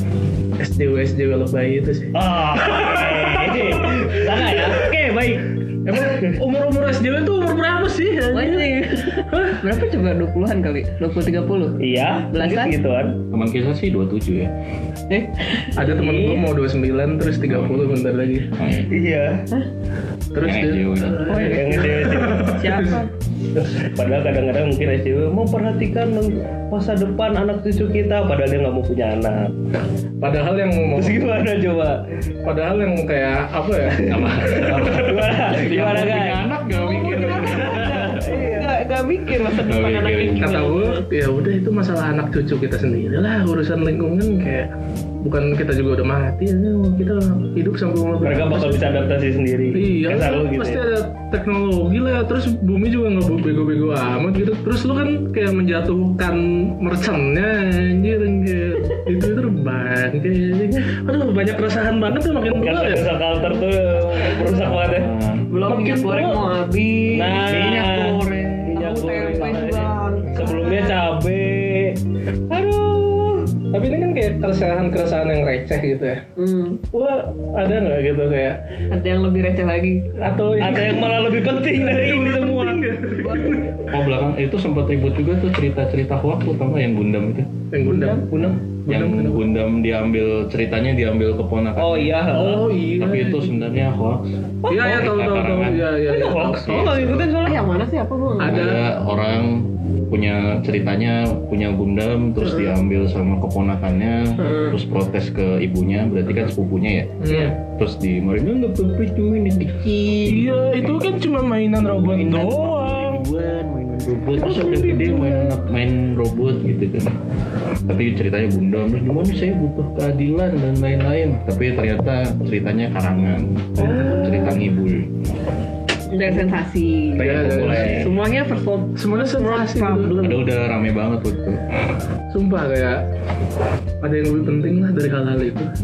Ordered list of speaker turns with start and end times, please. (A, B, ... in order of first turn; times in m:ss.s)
0:00.6-0:04.8 A
0:02.1-0:05.5 B
0:05.8-0:09.6 A
0:08.3-0:12.8 C
0:11.8-0:13.2 B
0:13.3-0:14.5 D
0:15.1-0:15.8 C
0:15.8-0:18.5 A
0:15.8-0:16.5 B
0:17.5-0:18.9 D
0:18.9-0:19.4 B
0:20.3-0:23.0 A
0:20.4-0:21.3 D
0:21.3-0:21.6 C
0:21.3-0:22.5 B
0:22.5-0:23.1 C
0:23.9-0:29.5 B
0:30.2-0:31.2 A
0:31.0-0:32.0 B
0:32.4-0:34.2 A
0:34.0-0:38.2 D
0:34.1-0:36.4 B
0:36.7-0:41.0 C
0:37.8-0:38.8 B
0:39.5-0:40.6 D
0:40.4-0:44.7 A
0:45.2-0:48.9 A
0:48.2-0:50.8 B
0:49.7-1:03.1 A
1:02.6-1:05.1 B
1:03.5-1:04.6 C
1:04.4-1:05.4 D
1:05.5-1:07.5 C
1:05.7-1:06.5 A
1:07.1-1:12.0 B
1:07.4-1:08.9 D
1:08.7-1:11.0 C
1:12.9-1:13.4 B
1:13.7-1:16.2 A
1:16.4-1:16.8 C
1:16.9-1:18.6 A
1:18.9-1:20.1 C
1:20.2-1:23.9 A
1:20.6-1:22.8 B
1:23.2-1:23.6 C
1:23.9-1:27.6 D
1:27.7-1:29.4 A
1:27.8-1:28.3 C
1:28.3-1:32.3 D
1:31.8-1:32.7 B
1:32.3-1:33.5 A
1:33.0-1:37.2 D
1:34.7-1:37.4 A
1:34.7-1:35.2 B
1:36.1-1:37.7 B
1:37.4-1:38.8 C
1:38.4-1:38.8 A
1:38.4-1:51.0 D
1:44.4-1:44.7 C
1:47.2-1:47.6 A
1:50.2-1:53.2 A
1:51.8-1:57.1 D
1:54.4-1:55.6 C
1:57.9-2:05.1 D
2:03.8-2:04.6 C
2:03.8-2:04.2 A
2:06.1-2:10.2 C
2:07.2-2:08.0 B
2:07.2-2:08.1 A
2:07.2-2:08.1 D
2:09.0-2:10.5 A
2:10.2-2:11.6 D
2:12.3-2:13.0 A
2:14.0-2:15.7 A